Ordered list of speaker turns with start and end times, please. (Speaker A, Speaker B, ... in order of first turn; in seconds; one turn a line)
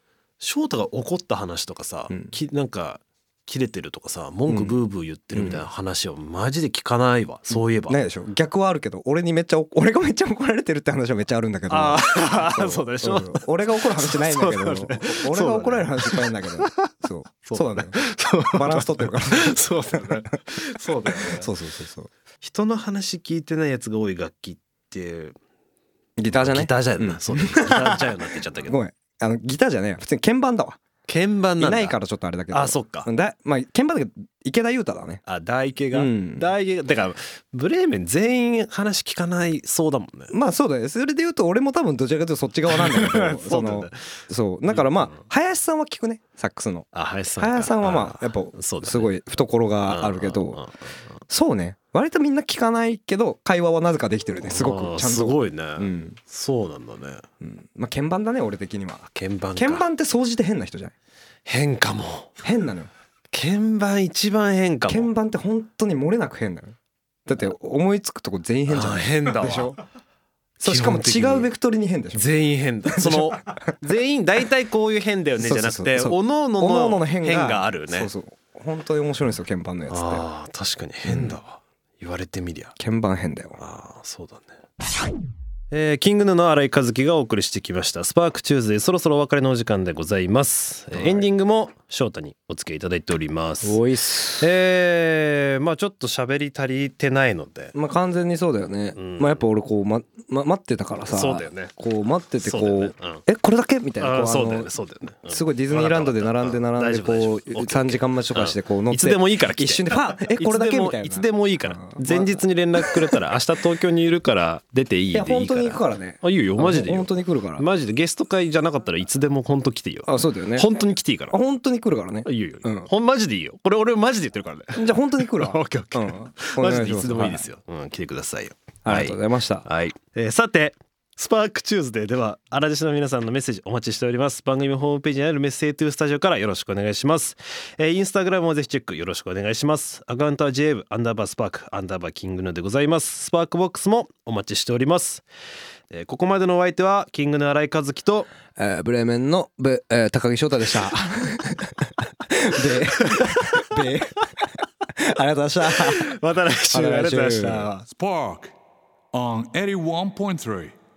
Speaker A: 0.4-8.0
Speaker B: 4.5-4.8
Speaker B: 5.3-5.6
Speaker B: 7.5-20.4
Speaker A: 11.7-21.5
Speaker B: 21.2-22.1
Speaker A: 22.4-25.4
Speaker B: 26.2-28.1
Speaker A: 26.3-28.8
Speaker B: 28.6-30.8
Speaker A: 31.1-31.9
Speaker B: 31.6-35.2
Speaker A: 32.5-33.1
Speaker A: 35.2-40.3
Speaker B: 35.9-36.5
Speaker B: 40.3-50.6
Speaker A: 42.7-44.2
Speaker A: 44.7-45.2
Speaker A: 46.9-49.1
Speaker A: 49.8-51.2
Speaker B: 51.3-56.2
Speaker A: 54.4-57.2
Speaker B: 57.4-59.0
Speaker A: 59.1-59.9
Speaker B: 59.5-60.9
Speaker A: 61.5-62.3
Speaker B: 62.4-62.9
Speaker A: 63.3-65.1
Speaker B: 64.9-69.8
Speaker A: 68.7-69.7
Speaker B: 70.6-72.3
Speaker A: 70.6-71.5
Speaker A: 72.1-78.1
Speaker B: 72.9-73.7
Speaker B: 75.4-80.2
Speaker A: 79.9-82.7
Speaker B: 81.1-81.4
Speaker B: 82.8-83.6
Speaker A: 83.6-84.5
Speaker A: 85.7-93.8
Speaker B: 90.9-91.3
Speaker B: 93.6-94.5
Speaker A: 94.4-97.8
Speaker B: 97.7-104.7
Speaker A: 98.9-99.4
Speaker A: 101.1-101.7
Speaker A: 102.4-103.2
Speaker A: 104.0-121.4
Speaker B: 105.3-113.1
Speaker B: 115.1-117.6
Speaker B: 120.1-120.7
Speaker B: 121.3-122.9
Speaker A: 122.2-145.2
Speaker B: 124.8-127.5
Speaker B: 128.8-129.7
Speaker A: 145.9-148.3
Speaker B: 148.6-154.3
Speaker A: 152.9-153.8
Speaker B: 154.9-156.0
Speaker A: 155.7-157.8
Speaker B: 156.7-157.7
Speaker C: 157.9-158.5
Speaker C: 159.1-160.7